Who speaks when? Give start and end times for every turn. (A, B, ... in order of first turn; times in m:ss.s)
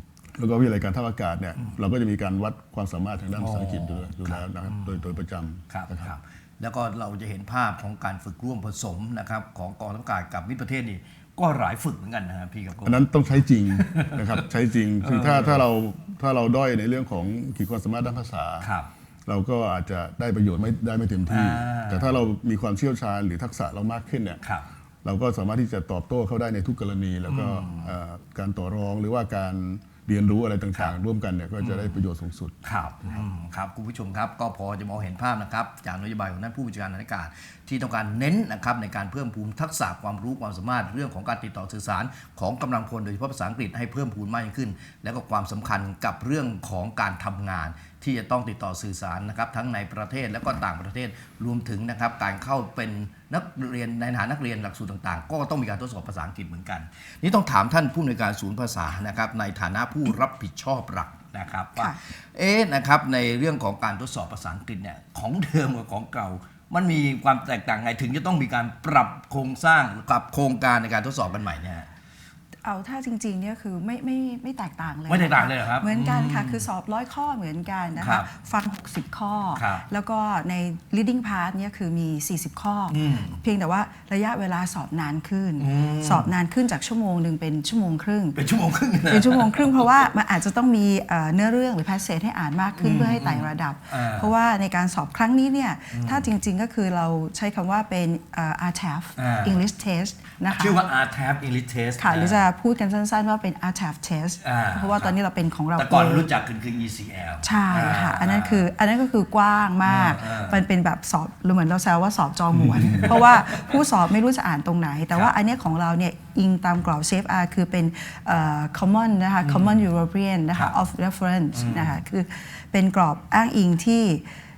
0:00.3-0:06.1 A
0:03.3-0:05.1 B
0:05.7-0:13.0 B
0:12.8-0:18.7 A
0:13.7-0:14.4 B
0:15.0-0:15.6 B
0:18.6-0:18.9 B
0:19.2-0:24.4 A
0:21.3-0:22.2 B
0:25.0-0:32.6 A
0:27.2-0:27.9 B
0:31.6-0:32.0 B
0:32.6-1:11.9 B
1:01.8-1:02.0 C
1:12.6-1:28.4 C
1:15.1-1:16.6 B
1:18.0-1:18.3 B
1:19.6-1:19.8 B
1:22.9-1:23.4 B
1:25.6-1:26.3 B
1:28.3-1:30.1 B
1:29.1-1:40.8 C
1:32.8-1:34.3 B
1:35.9-1:36.3 B
1:39.2-1:39.6 B
1:40.4-1:42.4 B
1:42.0-1:46.3 C
1:44.4-1:45.1 B
1:45.8-1:48.7 B
1:47.4-2:04.3 C
1:49.8-1:50.6 B
1:52.6-1:53.7 B
1:59.4-1:59.8 B
2:01.5-2:02.0 B